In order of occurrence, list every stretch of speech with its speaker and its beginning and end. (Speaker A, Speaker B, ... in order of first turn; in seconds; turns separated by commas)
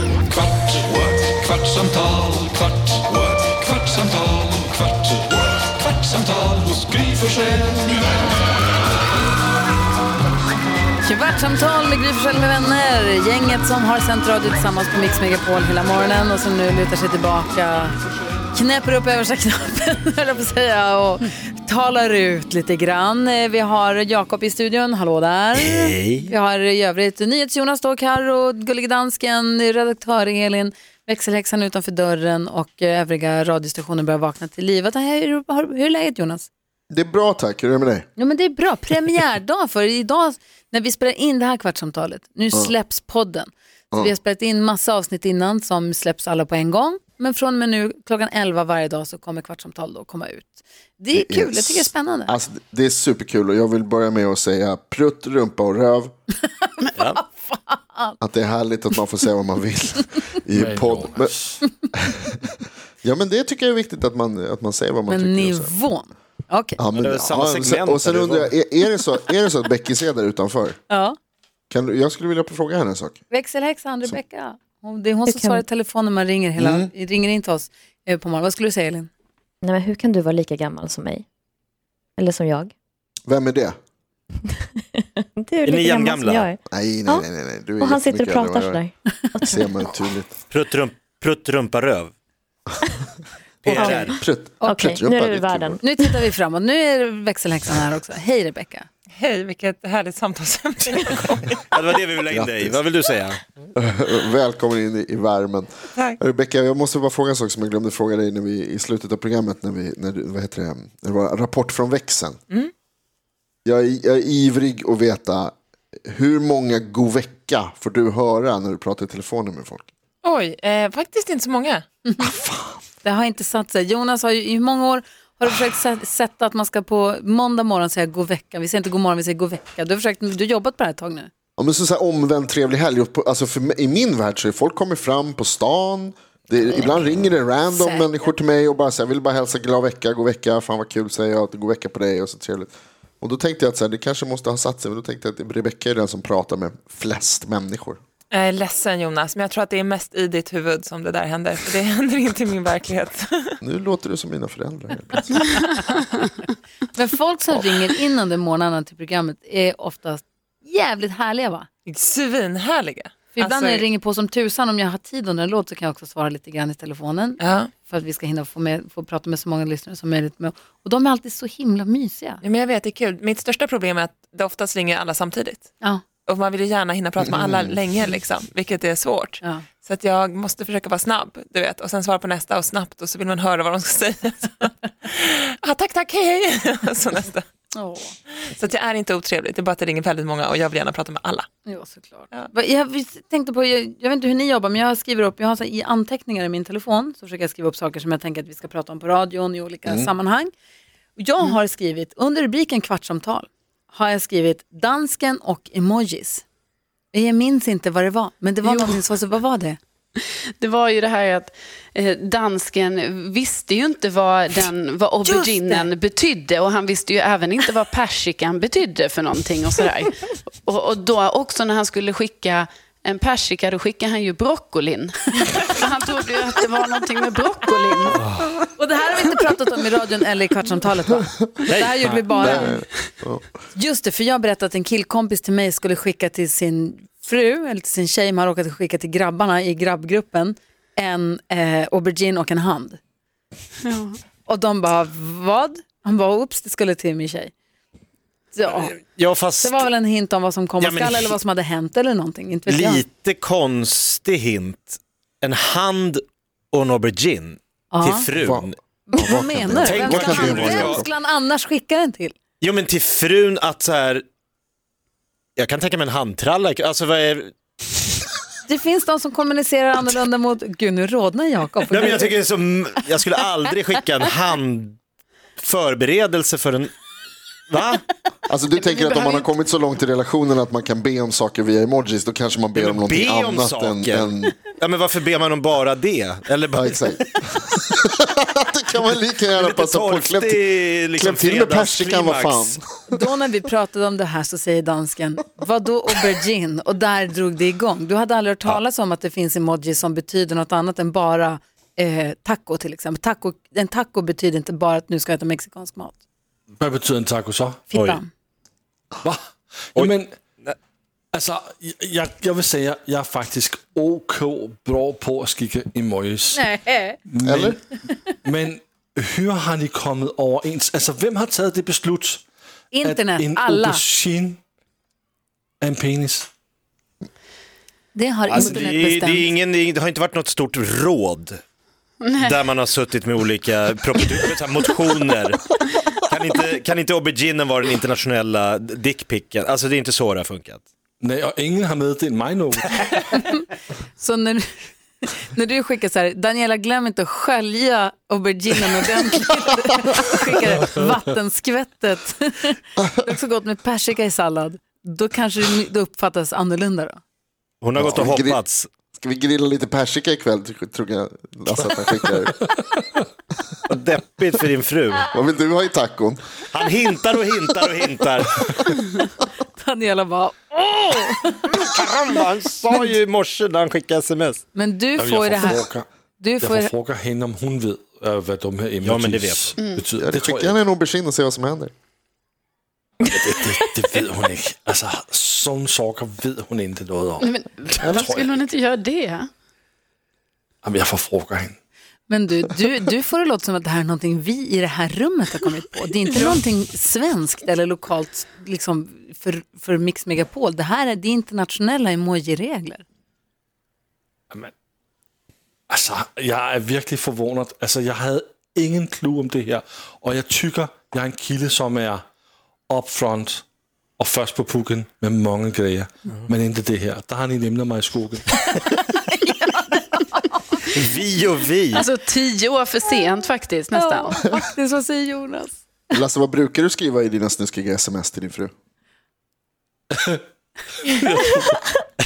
Speaker A: 0.7-1.9, Speaker A: 3.0-4.4, Speaker B: 11.0-18.0, Speaker B: 18.5-36.5, Speaker C: 25.6-26.3, Speaker D: 36.9-38.1, Speaker B: 38.2-52.3, Speaker D: 51.1-56.1, Speaker B: 56.4-58.2, Speaker D: 58.2-61.4, Speaker E: 60.5-61.6, Speaker D: 61.9-62.5, Speaker D: 63.0-65.7, Speaker B: 65.1-66.8, Speaker D: 66.8-70.8, Speaker C: 66.9-68.5, Speaker B: 70.9-71.2, Speaker D: 71.7-73.2, Speaker B: 73.3-79.1, Speaker F: 75.3-75.6, Speaker D: 76.6-76.9, Speaker F: 79.6-81.2, Speaker F: 82.2-82.7, Speaker D: 83.3-83.8, Speaker F: 85.4-87.3, Speaker C: 85.7-86.5, Speaker D: 86.7-88.8, Speaker F: 87.8-89.7, Speaker D: 89.4-90.4, Speaker C: 90.5-92.1, Speaker C: 93.7-94.2, Speaker F: 93.7-94.0, Speaker D: 93.7-95.8, Speaker F: 94.6-95.9, Speaker B: 95.8-98.9, Speaker G: 99.2-101.6, Speaker C: 101.7-103.4, Speaker D: 102.3-102.8, Speaker D: 103.8-112.4, Speaker D: 113.7-115.5, Speaker D: 116.1-119.9, Speaker G: 120.2-121.8, Speaker B: 122.1-122.3, Speaker D: 122.2-122.8, Speaker B: 123.0-131.3, Speaker D: 131.6-148.0, Speaker B: 137.7-138.1, Speaker G: 148.3-153.6, Speaker D: 153.6-155.5, Speaker B: 156.9-161.7, Speaker G: 161.9-163.8, Speaker B: 163.3-172.4, Speaker G: 167.4-167.7, Speaker G: 172.4-175.7, Speaker G: 176.3-187.4, Speaker B: 187.7-188.1, Speaker G: 188.6-191.5, Speaker B: 191.7-200.5, Speaker B: 201.2-206.4, Speaker B: 207.1-209.8, Speaker H: 208.6-209.0, Speaker H: 210.2-228.2, Speaker B: 215.2-215.9, Speaker B: 228.8-232.8, Speaker E: 232.0-232.8, Speaker D: 232.5-233.4, Speaker B: 233.7-243.0, Speaker H: 243.8-244.2, Speaker B: 244.5-247.5, Speaker B: 248.5-249.0, Speaker C: 248.8-249.8, Speaker B: 249.6-253.1, Speaker C: 250.8-251.4, Speaker C: 252.7-258.8, Speaker B: 257.9-258.3, Speaker D: 258.4-261.1, Speaker B: 259.1-262.4, Speaker C: 259.8-261.0, Speaker C: 262.6-264.2, Speaker C: 265.6-267.5, Speaker B: 268.7-272.3, Speaker C: 271.9-275.0, Speaker C: 275.6-276.9, Speaker C: 277.7-278.0, Speaker D: 278.5-284.6, Speaker B: 278.8-279.5, Speaker C: 282.8-286.9, Speaker D: 286.8-292.8, Speaker C: 289.6-292.8, Speaker B: 293.1-306.2, Speaker E: 306.8-307.8, Speaker B: 307.9-308.3, Speaker C: 307.9-308.2, Speaker E: 309.9-310.4, Speaker E: 311.3-316.6, Speaker B: 316.5-317.2, Speaker E: 317.3-322.4, Speaker D: 317.4-317.8, Speaker B: 322.9-324.0, Speaker E: 323.0-324.6, Speaker E: 325.8-326.5, Speaker B: 328.1-329.5, Speaker C: 328.5-331.6, Speaker H: 332.2-332.5, Speaker C: 332.4-335.7, Speaker C: 336.3-340.8, Speaker E: 341.2-343.4, Speaker B: 344.2-344.7, Speaker B: 345.2-357.2, Speaker C: 357.8-358.9, Speaker D: 357.9-358.6, Speaker D: 359.2-362.6, Speaker C: 363.9-365.3, Speaker D: 365.3-366.4, Speaker C: 366.7-368.5, Speaker B: 369.0-371.6, Speaker C: 371.7-374.6, Speaker B: 374.7-376.9, Speaker E: 375.2-376.1, Speaker E: 376.6-380.8, Speaker C: 379.0-379.7, Speaker H: 379.8-380.0, Speaker D: 380.2-381.9, Speaker E: 383.2-388.5, Speaker H: 387.4-389.5, Speaker E: 390.8-391.8, Speaker B: 392.3-403.0, Speaker E: 405.9-412.2, Speaker E: 412.9-413.6, Speaker E: 414.2-418.7, Speaker B: 419.4-420.4, Speaker C: 420.9-422.1, Speaker H: 422.0-424.4, Speaker B: 423.9-425.8, Speaker D: 426.1-428.7, Speaker E: 431.0-431.8